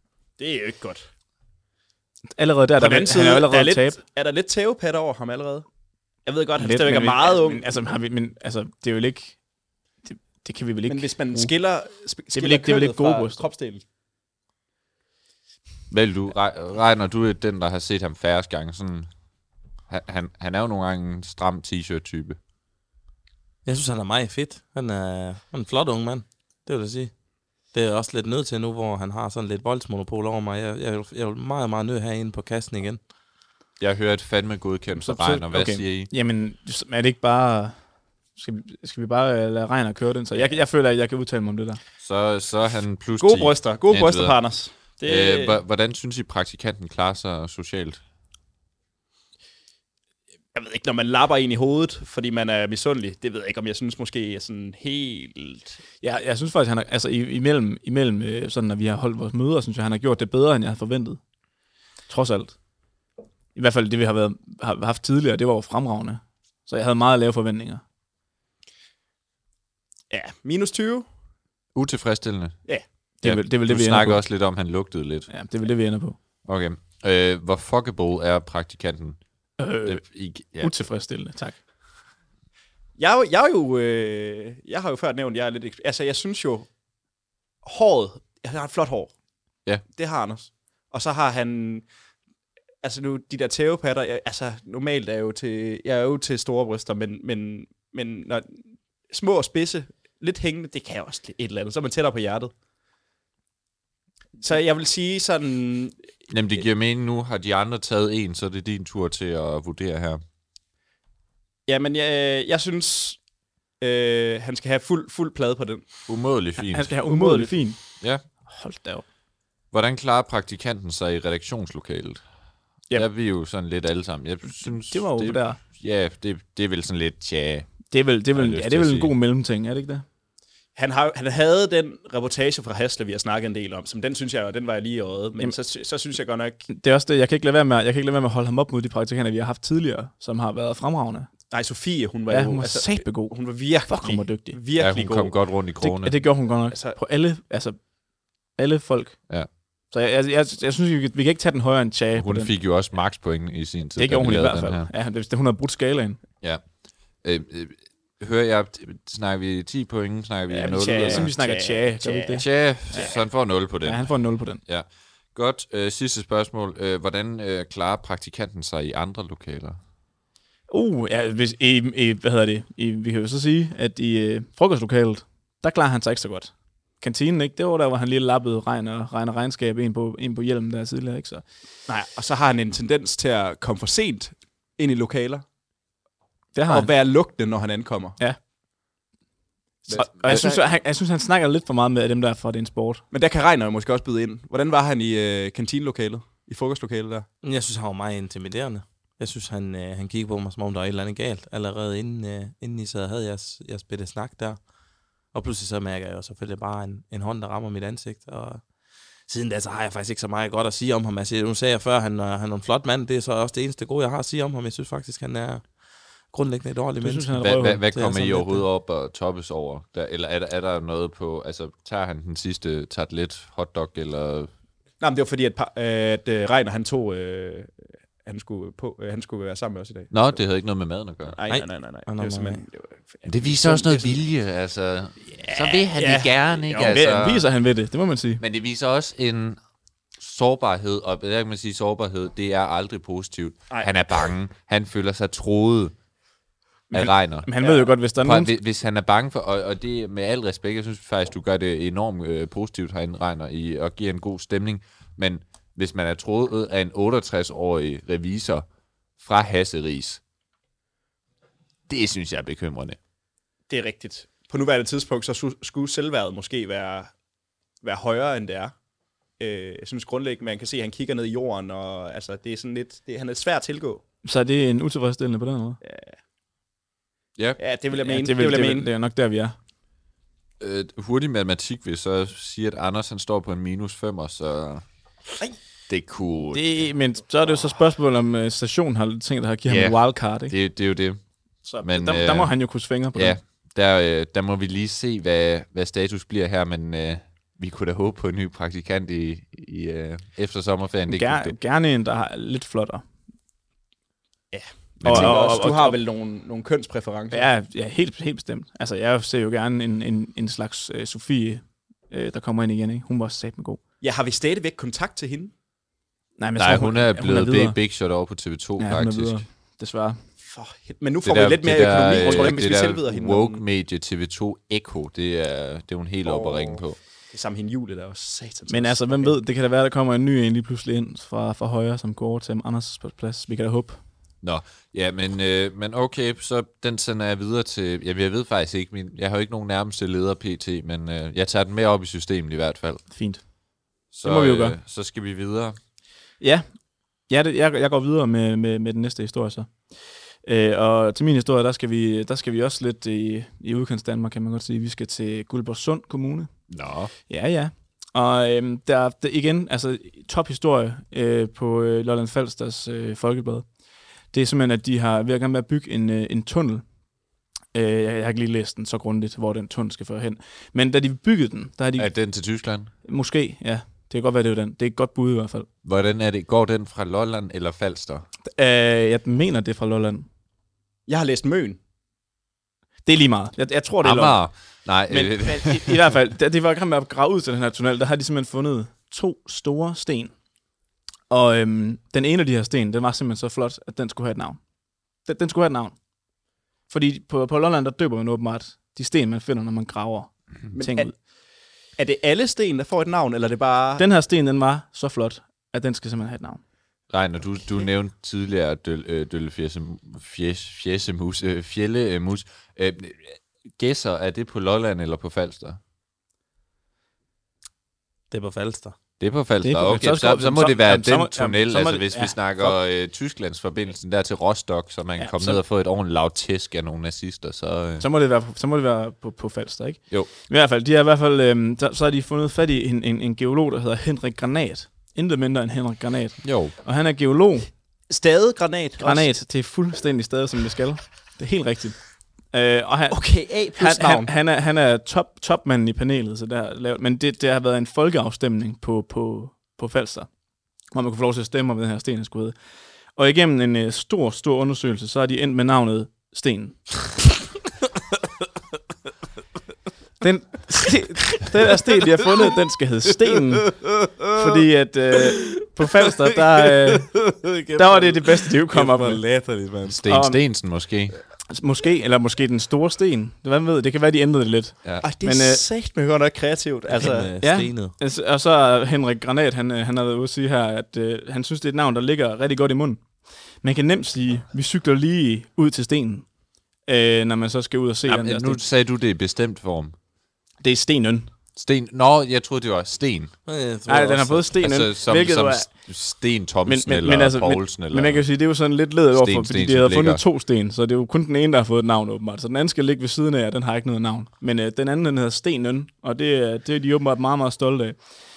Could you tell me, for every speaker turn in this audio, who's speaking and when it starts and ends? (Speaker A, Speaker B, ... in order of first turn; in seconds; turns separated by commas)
Speaker A: 0.4-1.0, Speaker B: 2.4-4.0, Speaker A: 2.8-5.7, Speaker A: 6.2-7.7, Speaker B: 6.6-9.4, Speaker B: 10.0-11.5, Speaker A: 10.9-13.8, Speaker B: 12.3-13.4, Speaker C: 15.9-19.1, Speaker C: 19.9-22.4, Speaker D: 23.6-27.1, Speaker D: 27.7-33.0, Speaker C: 33.8-36.1, Speaker B: 34.9-37.8, Speaker B: 38.4-41.8, Speaker C: 42.0-44.4, Speaker A: 43.2-45.6, Speaker C: 45.0-48.0, Speaker A: 50.5-55.8, Speaker B: 56.0-61.2, Speaker B: 62.1-62.6, Speaker B: 63.5-67.8, Speaker A: 70.1-71.1, Speaker C: 71.7-72.7, Speaker B: 73.2-74.2, Speaker C: 73.2-75.3, Speaker B: 75.3-76.2, Speaker C: 76.5-79.2, Speaker B: 79.6-80.0, Speaker C: 79.8-80.7, Speaker B: 80.6-81.6, Speaker A: 83.0-86.7, Speaker A: 87.6-89.1, Speaker A: 89.9-91.9, Speaker A: 92.8-102.5, Speaker A: 104.4-105.9, Speaker C: 106.3-110.2, Speaker A: 111.7-113.2, Speaker A: 113.8-116.0, Speaker C: 116.1-117.3, Speaker B: 116.6-119.0, Speaker A: 117.1-117.6, Speaker C: 119.7-122.2, Speaker C: 122.9-129.1, Speaker B: 124.4-125.6, Speaker B: 127.9-130.0, Speaker A: 130.7-136.6, Speaker B: 136.7-141.3, Speaker A: 141.5-145.4, Speaker B: 142.3-144.6, Speaker C: 144.8-146.2, Speaker B: 145.8-147.9, Speaker A: 146.7-147.0, Speaker B: 148.5-149.2, Speaker B: 149.9-152.5, Speaker C: 152.1-154.9, Speaker B: 154.0-156.2, Speaker C: 157.2-161.3, Speaker B: 160.6-163.1, Speaker A: 160.6-163.2, Speaker C: 162.3-169.8, Speaker B: 163.8-164.6, Speaker B: 170.7-181.4, Speaker A: 181.9-185.4, Speaker B: 186.5-186.9, Speaker A: 186.7-188.2, Speaker A: 189.8-190.6, Speaker B: 189.9-193.0, Speaker A: 193.1-197.2, Speaker D: 197.4-204.7, Speaker D: 205.3-208.7, Speaker D: 209.2-217.3, Speaker B: 217.0-218.6, Speaker C: 217.4-224.5, Speaker A: 225.0-230.4, Speaker C: 230.1-231.4, Speaker A: 231.3-234.2, Speaker D: 231.5-232.6, Speaker C: 233.2-237.5, Speaker A: 235.5-237.0, Speaker B: 236.8-238.4, Speaker C: 238.4-239.6, Speaker C: 240.2-245.9, Speaker B: 246.9-248.5, Speaker C: 246.9-247.5, Speaker A: 247.6-247.9, Speaker C: 248.2-258.6, Speaker C: 259.2-260.2, Speaker C: 261.9-263.0, Speaker A: 263.7-267.1, Speaker A: 267.8-268.7, Speaker A: 269.4-274.0, Speaker B: 274.2-275.8, Speaker A: 275.8-276.1, Speaker A: 277.6-278.9, Speaker B: 277.9-279.5, Speaker C: 280.6-284.8, Speaker C: 285.9-286.8, Speaker B: 286.5-290.5, Speaker C: 289.6-291.2, Speaker B: 291.6-293.4, Speaker C: 291.8-301.6, Speaker B: 301.1-303.1, Speaker A: 304.5-307.5, Speaker C: 305.0-305.6, Speaker B: 305.0-306.0, Speaker B: 307.3-313.8, Speaker A: 314.0-315.5, Speaker B: 316.4-317.8, Speaker C: 316.6-319.4, Speaker B: 318.8-320.2, Speaker A: 320.4-323.6, Speaker C: 321.2-327.0, Speaker B: 322.2-322.6, Speaker A: 326.2-329.4, Speaker B: 328.7-334.0, Speaker C: 334.4-343.1, Speaker B: 343.1-343.5, Speaker B: 344.1-344.8, Speaker C: 344.1-345.8, Speaker B: 346.4-346.6, Speaker B: 347.3-356.5, Speaker C: 356.7-357.1, Speaker B: 357.3-363.7, Speaker B: 364.3-366.9, Speaker B: 367.7-372.3, Speaker C: 372.0-372.9, Speaker B: 373.0-375.7, Speaker C: 375.8-378.2, Speaker B: 378.6-380.2, Speaker A: 381.1-381.8, Speaker B: 383.0-384.4, Speaker C: 384.0-386.1, Speaker B: 385.1-390.3, Speaker B: 391.3-394.6, Speaker B: 395.2-396.0, Speaker B: 396.9-401.1, Speaker A: 400.7-401.2, Speaker A: 402.0-404.0, Speaker B: 404.0-406.6, Speaker C: 407.1-415.8, Speaker D: 418.3-418.9, Speaker C: 419.2-428.0, Speaker B: 419.6-422.8, Speaker B: 425.2-425.6, Speaker B: 428.0-437.7, Speaker C: 436.4-436.7, Speaker A: 438.1-439.3, Speaker B: 439.0-450.3, Speaker A: 443.1-444.3, Speaker B: 450.9-452.6, Speaker B: 453.1-457.0, Speaker B: 460.2-467.1, Speaker D: 463.6-464.6, Speaker D: 465.4-466.1, Speaker D: 467.0-470.0, Speaker B: 467.8-469.2, Speaker C: 469.9-471.1, Speaker B: 470.1-470.4, Speaker B: 471.5-475.6, Speaker A: 475.0-477.3, Speaker D: 476.9-477.9, Speaker B: 477.4-486.3, Speaker B: 486.9-488.6, Speaker C: 488.1-489.9, Speaker B: 490.6-491.3, Speaker C: 491.6-493.4, Speaker D: 493.4-494.6, Speaker B: 493.9-495.7, Speaker C: 494.5-498.3, Speaker B: 496.6-508.2, Speaker C: 499.1-500.2